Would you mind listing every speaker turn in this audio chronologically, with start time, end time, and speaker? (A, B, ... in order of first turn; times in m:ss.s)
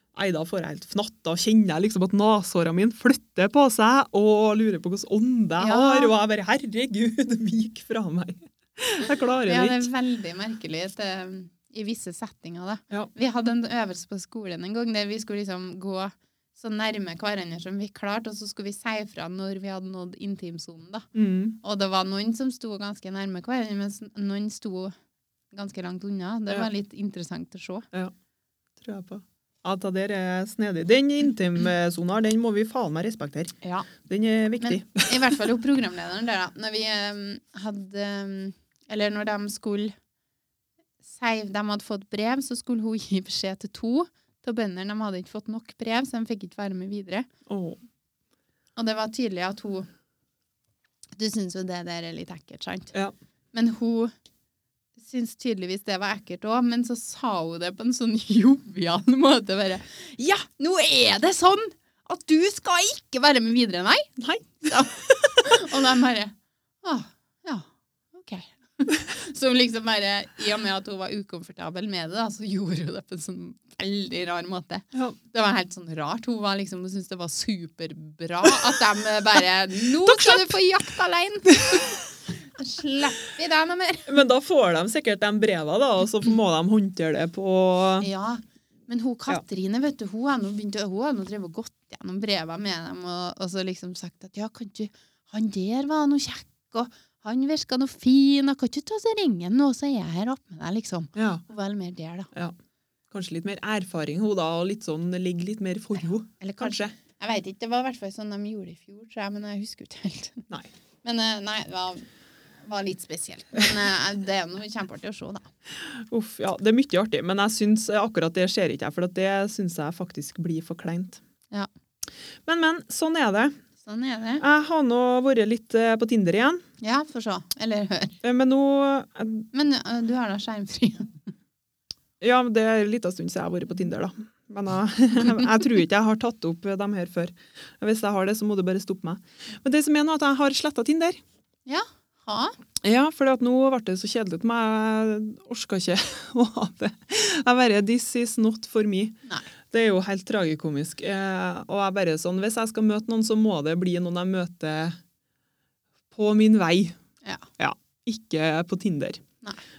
0:00.1-0:09.9 A
0:05.6-0:06.1 B
0:09.4-0:21.1 B
0:21.1-0:21.6 A
0:21.6-0:24.9 B
0:25.5-0:27.8 B
0:28.8-0:35.4 A
0:33.6-0:33.9 B
0:34.6-0:39.9 B
0:41.0-0:47.3 B
0:47.5-0:47.8 A
0:48.8-0:49.9 B
0:51.2-0:52.9 B
0:53.5-0:54.1 B
0:55.0-1:04.1 B
1:04.2-1:05.6 A
1:04.6-1:24.1 B
1:20.0-1:20.5 A
1:21.6-1:21.8 A
1:24.1-1:28.1 A
1:28.0-1:42.3 B
1:41.1-1:41.4 A
1:43.1-1:46.9 A
1:46.4-1:50.5 B
1:51.0-1:52.0 B
1:52.6-1:55.5 B
1:55.8-2:01.2 A
2:02.4-2:03.5 A
2:03.8-2:04.4 B
2:04.4-2:06.6 A
2:06.8-2:08.2 B
2:08.2-2:09.5 A
2:09.5-2:11.3 B
2:12.2-2:21.2 A
2:21.6-2:22.6 B
2:22.8-2:29.2 A
2:29.7-2:35.0 A
2:36.1-2:37.0 A
2:37.2-2:37.5 B
2:37.6-2:39.2 A